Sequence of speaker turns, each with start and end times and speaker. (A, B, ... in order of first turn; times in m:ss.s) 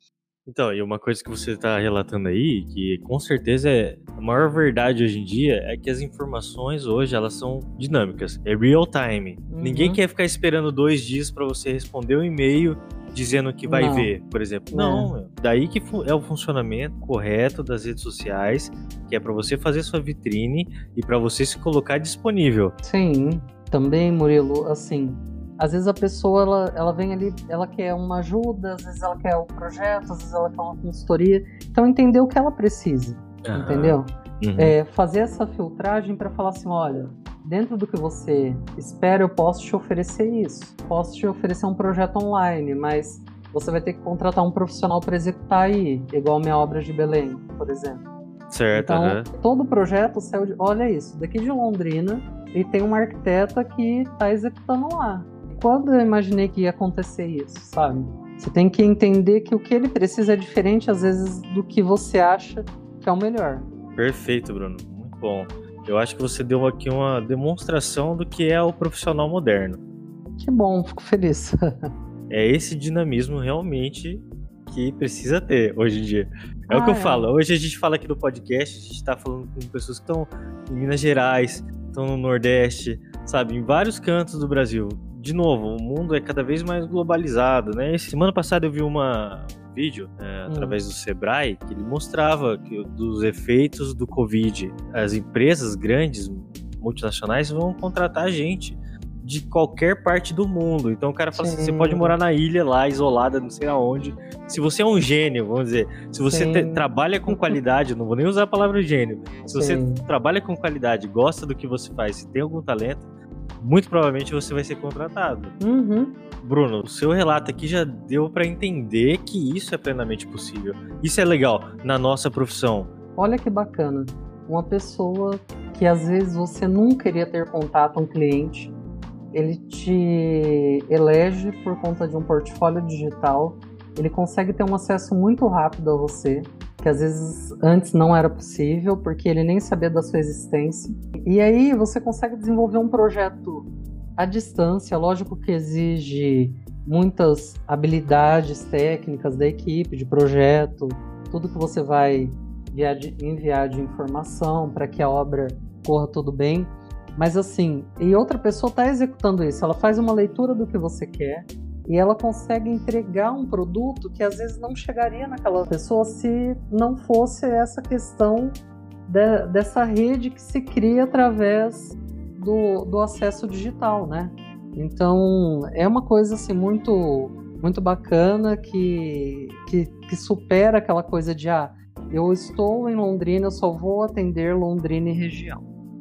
0:00.4-0:22.8 A
0:09.5-0:10.0 B
0:13.7-0:14.1 B
0:14.7-0:15.1 B
0:22.8-0:48.0 B
0:33.4-0:34.7 A
0:48.5-0:49.3 A
0:48.7-1:03.7 B
1:04.0-1:09.8 A
1:10.4-1:11.6 B
1:12.3-1:53.1 A
1:16.7-1:17.3 B
1:30.5-1:30.8 B
1:41.3-1:42.1 B
1:46.3-1:47.6 B
1:49.4-1:50.1 B
1:53.6-1:55.6 A
1:55.6-1:56.2 B
1:56.4-2:02.9 A
2:03.2-2:08.7 B
2:09.3-3:05.7 B